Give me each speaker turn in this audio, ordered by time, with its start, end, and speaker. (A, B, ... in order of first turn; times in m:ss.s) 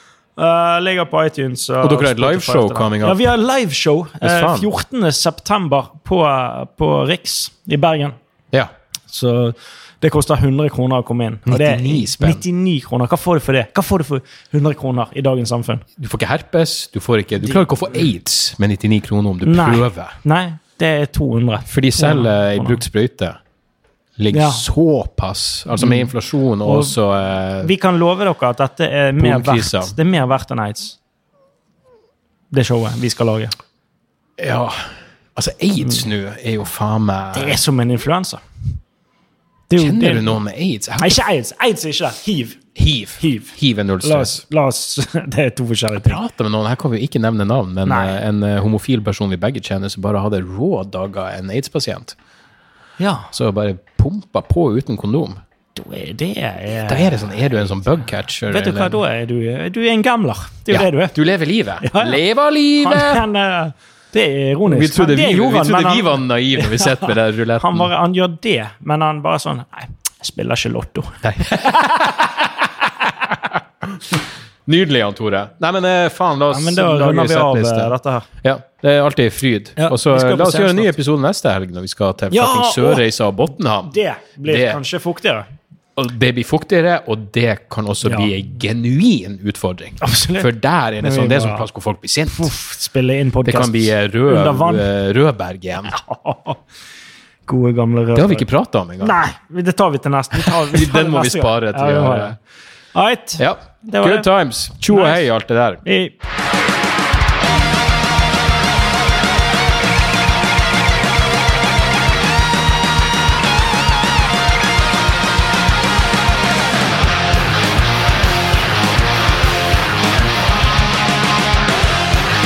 0:00.4-0:08.2 A
0:01.8-0:03.3 B
0:04.2-0:04.7 B
0:09.1-0:15.8 A
0:11.5-0:12.4 B
0:16.0-0:20.2 B
0:19.4-0:22.8 A
0:21.7-0:23.4 B
0:24.2-0:27.7 B
0:24.3-0:24.7 A
0:25.8-0:26.1 A
0:26.6-0:27.0 A
0:27.6-0:31.0 A
0:29.2-0:30.0 B
0:32.5-0:33.5 A
0:34.4-0:37.6 B
0:37.3-0:38.4 A
0:39.7-0:40.4 A
0:39.8-0:41.2 B
0:41.0-0:46.2 A
0:42.8-0:44.4 B
0:46.0-0:52.1 B
0:47.8-0:48.2 A
0:53.0-0:53.3 A
0:53.3-0:55.4 B
0:55.8-0:57.5 A
0:56.7-0:59.0 B
0:58.5-1:01.2 A
1:00.7-1:03.2 B
1:01.8-1:02.2 A
1:02.8-1:12.1 A
1:04.7-1:07.9 B
1:11.2-1:24.8 B
1:16.5-1:18.3 A
1:19.8-1:20.9 A
1:22.3-1:23.0 A
1:23.8-1:25.5 A
1:26.0-1:32.5 B
1:28.1-1:28.3 A
1:30.0-1:31.7 A
1:32.3-1:34.9 A
1:33.4-1:36.0 B
1:35.9-1:36.6 A
1:37.5-1:38.5 A
1:38.1-1:39.2 B
1:39.0-1:42.3 A
1:40.4-1:42.4 B
1:42.9-1:44.3 A
1:43.4-1:45.8 B
1:44.8-1:45.3 A
1:45.8-1:46.1 A